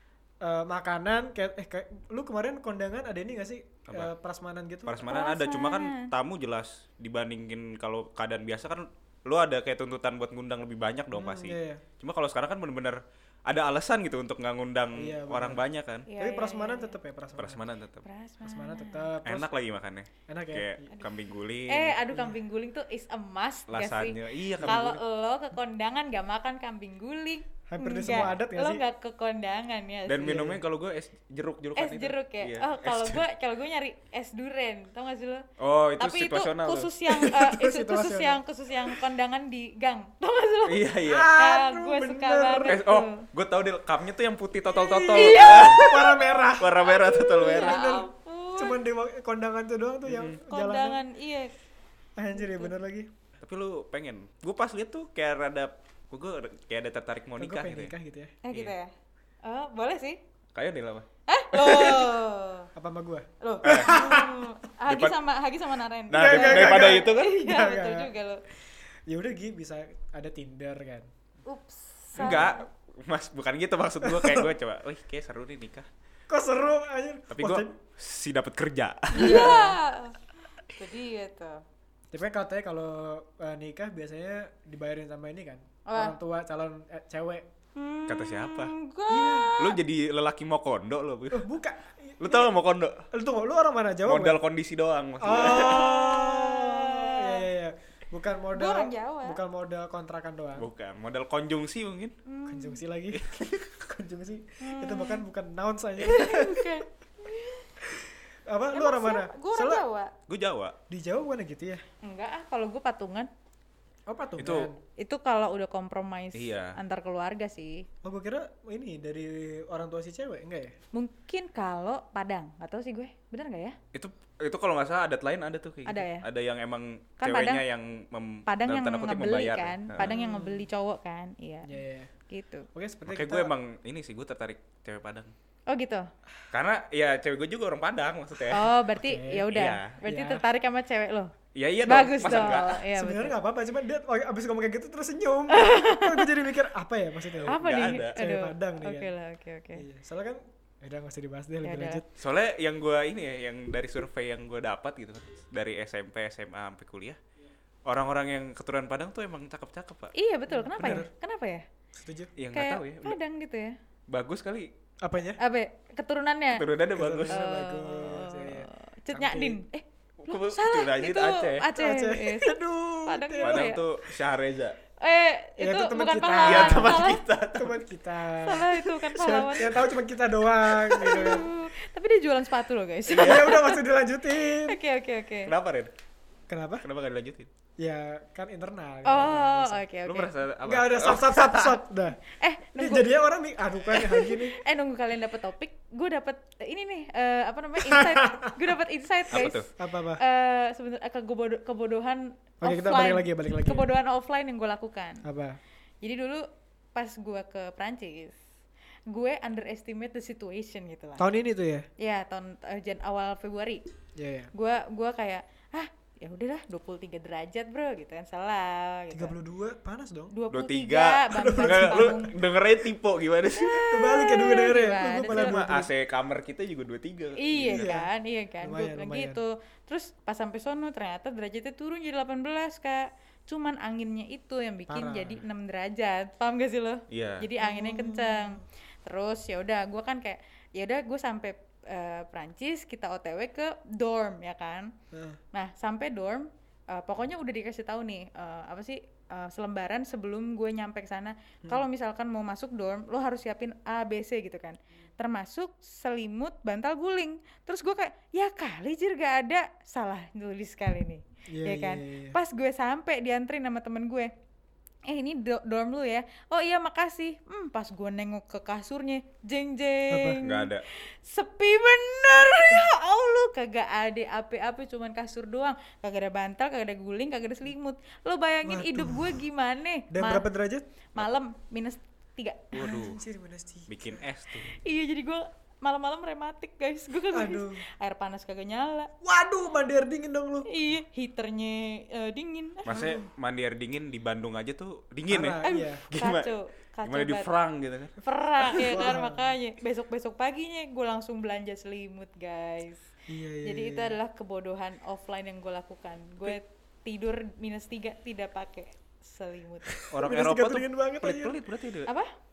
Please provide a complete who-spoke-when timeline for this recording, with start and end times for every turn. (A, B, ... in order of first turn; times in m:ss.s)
0:00.4-0:05.0 A
0:04.9-0:16.1 B
0:05.0-0:06.1 C
0:11.1-0:11.8 A
0:15.0-0:15.6 A
0:16.1-0:17.0 C
0:16.2-0:17.6 A
0:17.4-0:18.1 B
0:18.0-0:19.1 C
0:18.4-0:19.5 A
0:19.2-0:22.0 B
0:20.3-0:20.9 A
0:21.7-0:30.5 C
0:22.1-0:22.4 A
0:23.7-0:25.0 B
0:24.6-0:25.0 A
0:27.7-0:28.8 A
0:30.1-0:33.2 B
0:30.2-0:30.6 A
0:31.8-0:35.4 C
0:35.6-0:37.3 B
0:36.0-0:43.3 C
0:37.2-0:38.4 A
0:40.6-0:41.3 B
0:41.0-0:42.8 A
0:42.6-0:46.0 B
0:44.9-0:48.8 C
0:45.0-0:51.0 A
0:46.6-0:48.0 B
0:50.1-0:50.4 B
0:50.4-0:51.5 C
0:52.2-0:53.1 A
0:52.3-0:52.7 C
0:53.4-0:57.9 B
0:57.4-0:58.4 A
0:58.4-0:58.9 C
0:59.4-1:00.2 C
1:00.6-1:02.1 B
1:01.3-1:02.7 C
1:02.8-1:04.5 A
1:03.4-1:08.4 C
1:03.6-1:04.0 B
1:04.9-1:05.2 B
1:06.1-1:07.4 B
1:06.1-1:08.1 A
1:09.1-1:11.1 A
1:11.4-1:12.6 C
1:12.2-1:12.5 A
1:12.2-1:15.9 B
1:14.0-1:14.5 A
1:16.3-1:17.8 A
1:17.3-1:19.6 B
1:19.1-1:19.8 A
1:19.2-1:21.6 C
1:22.1-1:27.4 A
1:25.9-1:26.2 C
1:27.8-1:29.8 C
1:28.1-1:28.7 B
1:29.1-1:29.6 A
1:29.6-1:31.5 B
1:31.3-1:32.5 A
1:32.2-1:33.0 B
1:33.1-1:34.4 A
1:34.1-1:35.9 B
1:35.2-1:40.7 A
1:35.3-1:37.4 C
1:38.5-1:39.4 C
1:40.6-1:42.1 B
1:42.3-1:42.8 C
1:42.5-1:46.8 A
1:43.1-1:43.7 B
1:44.6-1:45.2 C
1:46.0-1:47.6 C
1:47.8-1:49.8 A
1:48.7-1:50.1 C
1:50.3-1:50.8 B
1:50.9-1:51.8 A
1:52.0-1:53.3 C
1:54.1-1:54.8 A
1:54.4-1:54.7 B
1:55.0-1:57.9 C
1:56.3-1:56.8 B
1:58.0-2:00.8 A
2:00.9-2:03.8 C
2:03.9-2:10.2 B
2:05.9-2:06.3 C
2:07.2-2:07.6 C
2:08.5-2:11.7 C
2:10.0-2:10.7 A
2:11.6-2:12.1 A
2:12.3-2:12.7 C
2:12.7-2:13.5 A
2:13.1-2:15.3 B
2:15.7-2:16.1 C
2:16.5-2:18.7 B
2:18.5-2:21.3 C
2:19.0-2:19.5 A
2:19.5-2:20.0 B
2:20.0-2:20.4 A
2:21.5-2:22.8 B
2:21.8-2:23.4 C
2:22.2-2:29.1 A
2:25.5-2:26.3 C
2:27.4-2:28.2 B
2:27.5-2:29.8 C
2:29.8-2:32.0 A
2:31.6-2:32.0 C
2:32.2-2:37.2 B
2:37.9-2:40.1 B
2:40.1-2:41.6 C
2:40.5-2:41.1 A
2:42.0-2:42.3 A
2:42.4-2:43.2 B
2:42.5-2:43.8 C
2:44.1-2:44.7 B
2:45.0-2:45.4 A
2:45.4-2:46.6 C
2:46.5-2:47.4 B
2:47.0-2:49.6 A
2:47.3-2:53.8 C
2:50.2-2:51.7 B
2:51.8-2:53.7 A
2:53.4-2:54.8 B
2:55.0-2:57.2 C
2:55.6-2:57.0 A
2:56.4-2:57.8 B
2:57.5-3:01.5 A
2:58.4-2:59.9 C
3:00.9-3:05.5 C
3:03.1-3:04.8 A
3:03.1-3:03.5 B
3:05.4-3:05.9 B
3:06.5-3:06.9 A
3:06.8-3:07.5 B
3:07.8-3:09.8 A
3:09.0-3:10.3 C
3:10.1-3:11.8 B
3:10.6-3:12.2 A
3:12.3-3:13.2 C
3:12.8-3:14.6 A
3:13.9-3:25.2 C
3:17.8-3:18.6 A
3:19.3-3:19.7 B
3:19.8-3:20.2 A
3:22.6-3:23.9 A
3:25.2-3:25.6 A
3:26.0-3:28.4 C
3:29.1-3:31.2 C
3:31.2-3:31.9 A
3:32.0-3:33.8 C
3:34.2-3:34.5 A
3:34.5-3:39.4 C
3:39.1-3:40.3 A
3:40.3-3:42.3 C
3:40.5-3:43.9 B
3:41.3-3:42.2 A
3:43.6-3:45.6 C
3:43.9-3:45.9 A
3:45.3-3:47.9 B
3:47.4-4:04.9 C
3:47.6-3:48.1 A
3:48.6-3:49.4 A
3:54.9-3:55.4 A
3:57.1-3:57.5 B
3:57.6-3:58.6 A
4:05.1-4:05.4 A
4:05.5-4:24.3 C
4:21.5-4:22.4 A
4:25.1-4:40.4 C
4:30.1-4:30.4 A
4:30.4-4:30.9 B
4:38.6-4:39.4 A
4:40.1-4:40.8 A
4:41.1-4:43.1 C
4:42.7-4:43.2 B
4:42.8-4:44.2 A
4:43.9-4:44.8 B
4:44.7-4:49.1 C
4:47.3-4:47.8 A
4:49.2-4:50.7 A
4:50.7-4:52.9 C
4:52.8-4:56.5 B
4:52.9-4:53.3 A
4:55.3-4:56.1 A
4:55.6-4:57.5 C
4:57.0-4:59.1 B
4:58.2-5:03.0 C
4:58.9-4:59.5 A
5:03.3-5:04.2 A
5:03.6-5:10.0 C
5:09.9-5:11.6 A
5:10.1-5:12.1 B